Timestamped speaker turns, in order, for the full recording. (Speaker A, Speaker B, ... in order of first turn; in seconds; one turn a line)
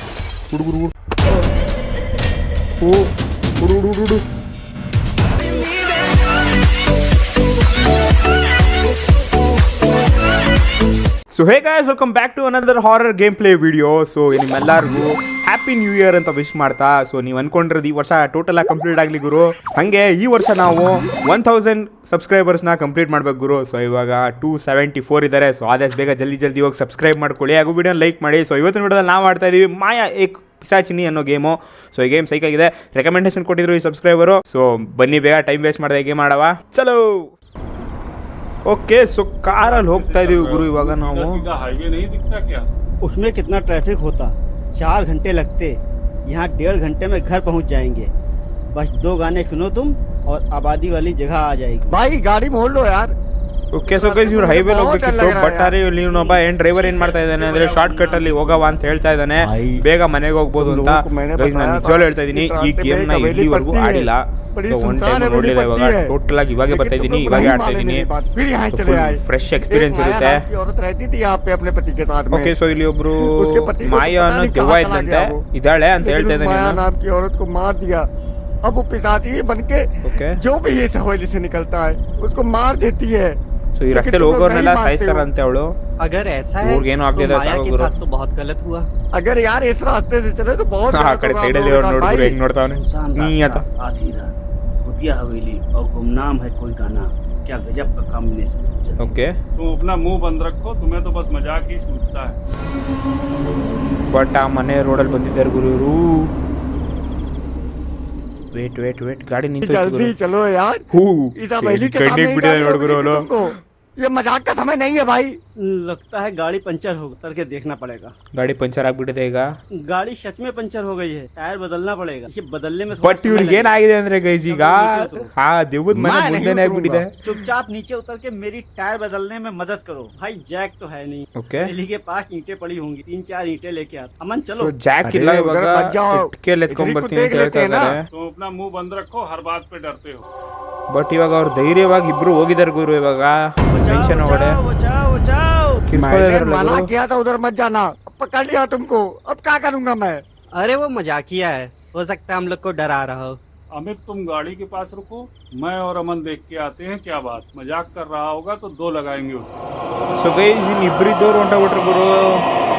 Speaker A: 0.5-1.4
Speaker A: 2.8-4.2
Speaker A: 11.3-37.3
Speaker A: 38.7-41.5
Speaker B: 39.5-42.7
Speaker C: 43.0-48.1
Speaker C: 48.7-52.0
Speaker D: 51.9-53.1
Speaker A: 53.7-68.1
Speaker D: 53.9-55.8
Speaker C: 56.1-58.8
Speaker C: 59.4-59.8
Speaker D: 60.6-66.1
Speaker D: 66.7-72.5
Speaker A: 68.7-70.4
Speaker A: 72.3-76.8
Speaker D: 73.2-75.4
Speaker D: 76.0-78.1
Speaker D: 78.7-85.3
Speaker A: 80.0-80.4
Speaker A: 83.8-85.7
Speaker C: 86.0-88.9
Speaker A: 86.6-88.0
Speaker D: 89.1-92.4
Speaker A: 90.9-93.7
Speaker C: 92.6-99.2
Speaker A: 99.0-99.3
Speaker B: 99.6-102.4
Speaker A: 104.1-106.3
Speaker A: 108.5-110.1
Speaker D: 109.6-110.8
Speaker A: 110.9-113.3
Speaker D: 111.4-115.4
Speaker C: 115.6-118.1
Speaker A: 118.4-119.5
Speaker C: 119.8-123.8
Speaker A: 123.0-127.2
Speaker C: 124.5-125.3
Speaker D: 125.9-127.1
Speaker C: 127.2-134.7
Speaker A: 131.4-131.7
Speaker A: 134.6-138.1
Speaker D: 135.0-138.0
Speaker B: 138.1-140.2
Speaker A: 140.9-144.6
Speaker C: 143.7-145.9
Speaker A: 145.9-146.9
Speaker D: 145.9-150.2
Speaker C: 150.5-153.4
Speaker B: 153.7-159.6
Speaker A: 160.2-162.5